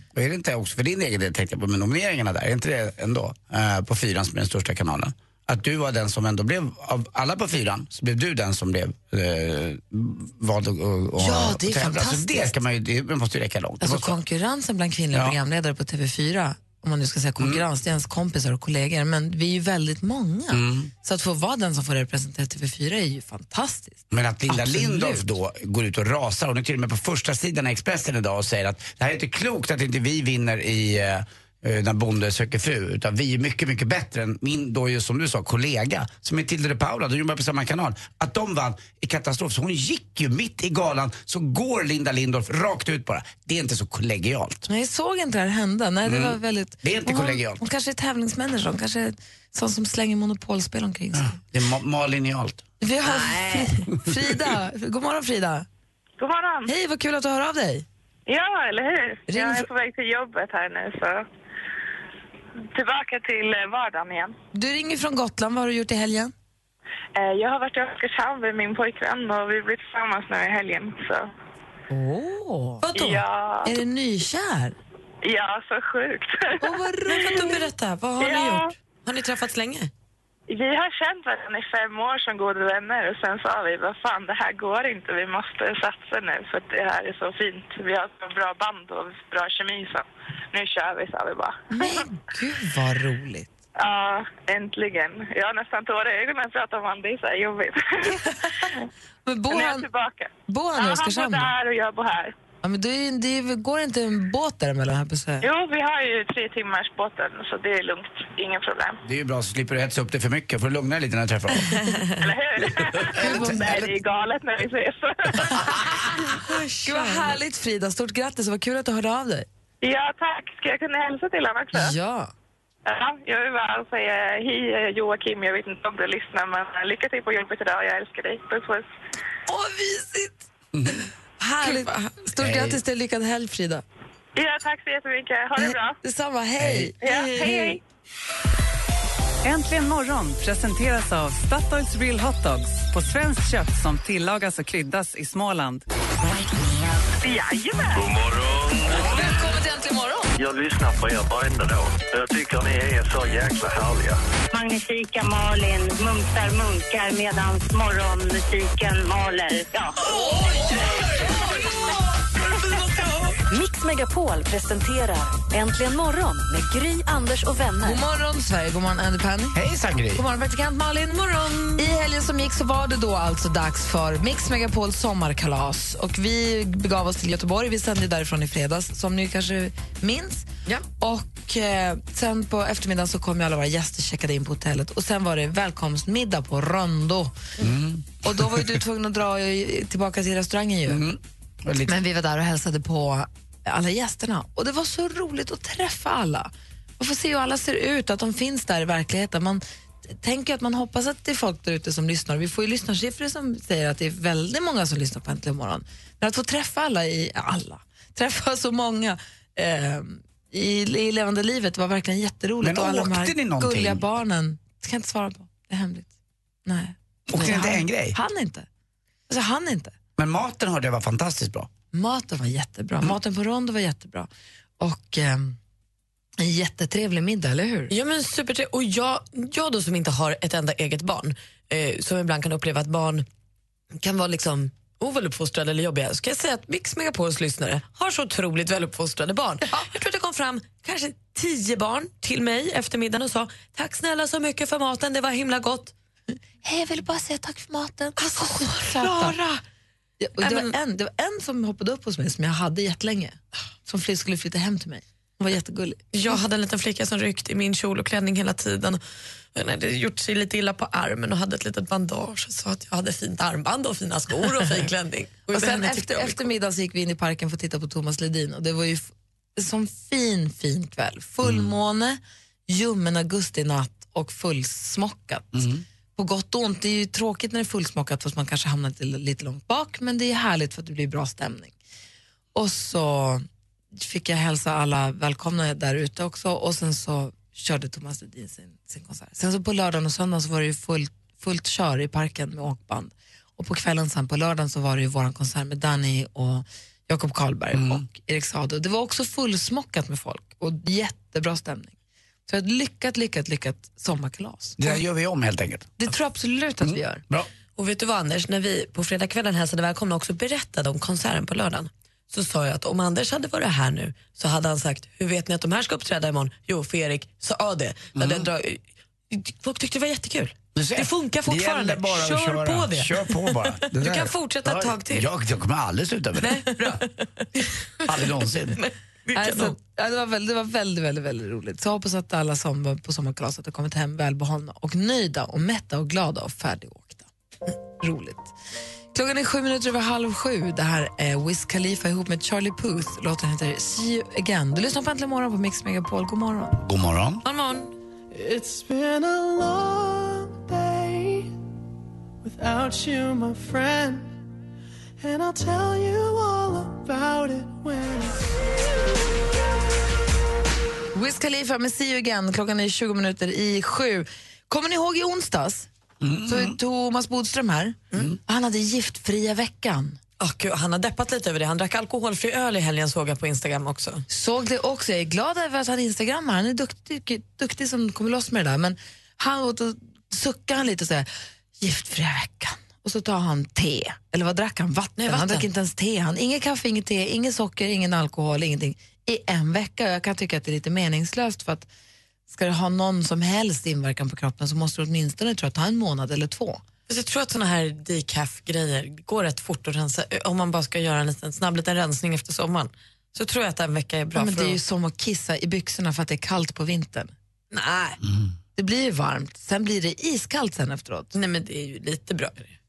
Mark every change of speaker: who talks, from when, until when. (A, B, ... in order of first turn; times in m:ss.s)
0:00.2-0:14.2 A
0:11.2-0:12.5 B
0:13.8-0:25.3 B
0:20.5-0:20.9 A
0:24.1-0:44.7 A
0:44.7-0:51.4 B
0:46.0-0:47.6 A
0:51.2-0:52.6 A
0:52.8-0:55.7 B
0:56.2-0:56.7 C
0:56.7-0:57.9 B
0:58.3-1:01.2 C
0:59.3-0:59.7 B
1:02.8-1:04.3 C
1:04.5-1:06.3 B
1:07.2-1:11.3 C
1:11.9-1:12.9 B
1:12.8-1:13.2 D
1:13.0-1:13.7 C
1:13.6-1:14.8 B
1:15.2-1:16.8 C
1:16.6-1:17.6 B
1:17.1-1:19.9 D
1:18.2-1:18.7 C
1:20.5-1:32.0 C
1:31.7-1:33.5 B
1:33.8-1:38.7 C
1:38.2-1:38.7 B
1:39.3-1:39.9 B
1:39.5-1:42.3 C
1:40.5-1:41.5 B
1:42.6-1:45.5 B
1:45.4-1:49.0 C
1:49.0-1:51.8 A
1:51.7-1:52.0 D
1:52.2-1:55.9 C
1:53.1-1:53.9 A
1:53.1-1:53.9 B
1:56.4-1:57.4 D
1:56.8-1:59.5 B
1:59.8-2:02.0 C
2:01.7-2:02.3 B
2:02.9-2:08.9 C
2:09.5-2:10.5 B
2:10.7-2:11.0 A
2:11.4-2:13.8 B
2:11.6-2:11.9 D
2:12.4-2:12.8 A
2:14.4-2:16.0 C
2:15.6-2:17.8 B
2:16.6-2:16.9 A
2:17.0-2:17.8 C
2:19.4-2:25.8 E
2:27.2-2:28.1 C
2:28.0-2:29.3 F
2:28.9-2:30.3 B
2:30.4-2:34.2 F
2:34.5-2:39.9 G
2:40.1-2:40.8 B
2:41.4-2:41.7 B
2:43.5-2:48.0 H
2:47.8-2:49.6 B
2:49.5-2:50.2 A
2:50.2-2:51.2 B
2:51.1-2:51.9 D
2:51.8-3:00.5 B
3:01.0-3:07.5 B
3:07.6-3:08.8 A
3:08.2-3:11.0 B
3:10.9-3:11.9 A
3:11.9-3:36.1 B
3:32.6-3:34.0 A
3:36.7-3:38.7 B
3:37.3-3:38.2 A
3:39.3-3:39.9 B
3:40.2-3:41.7 A
3:41.9-3:44.3 B
3:44.8-3:45.6 B
3:46.4-3:47.9 B
3:47.9-3:53.3 D
3:54.0-4:05.9 D
4:06.6-4:09.4 B
4:08.2-4:09.6 D
4:10.2-4:16.4 B
4:10.4-4:10.7 D
4:16.1-4:19.0 D
4:19.6-4:26.4 D
4:25.5-4:41.8 B
4:31.4-4:31.7 A
4:35.5-4:35.8 A
4:42.6-5:01.9 B
4:57.7-4:58.0 A
5:02.5-5:05.0 B
5:04.8-5:05.9 A
5:06.0-5:07.2 B
5:06.8-5:07.5 A
5:07.8-5:25.3 D
5:18.2-5:18.5 A
5:20.8-5:26.7 A
5:26.4-5:29.8 D
5:28.1-5:28.8 A
5:29.3-5:37.3 B
5:37.9-5:38.5 B
5:39.1-5:46.7 B
5:46.8-5:47.4 A
5:47.4-5:47.9 D
5:48.3-5:51.5 I
5:52.4-5:54.4 I
5:55.2-5:58.4 I
6:01.1-6:05.9 B
6:06.2-6:06.8 A
6:06.5-6:10.2 B
6:10.4-6:14.2 D
6:14.3-6:21.3 B
6:21.8-6:31.9 B
6:25.2-6:25.7 D
6:32.5-6:36.8 B
6:37.1-6:44.8 D
6:44.4-6:47.3 B
6:47.7-6:48.2 D
6:48.8-6:51.3 B
6:51.3-6:52.8 D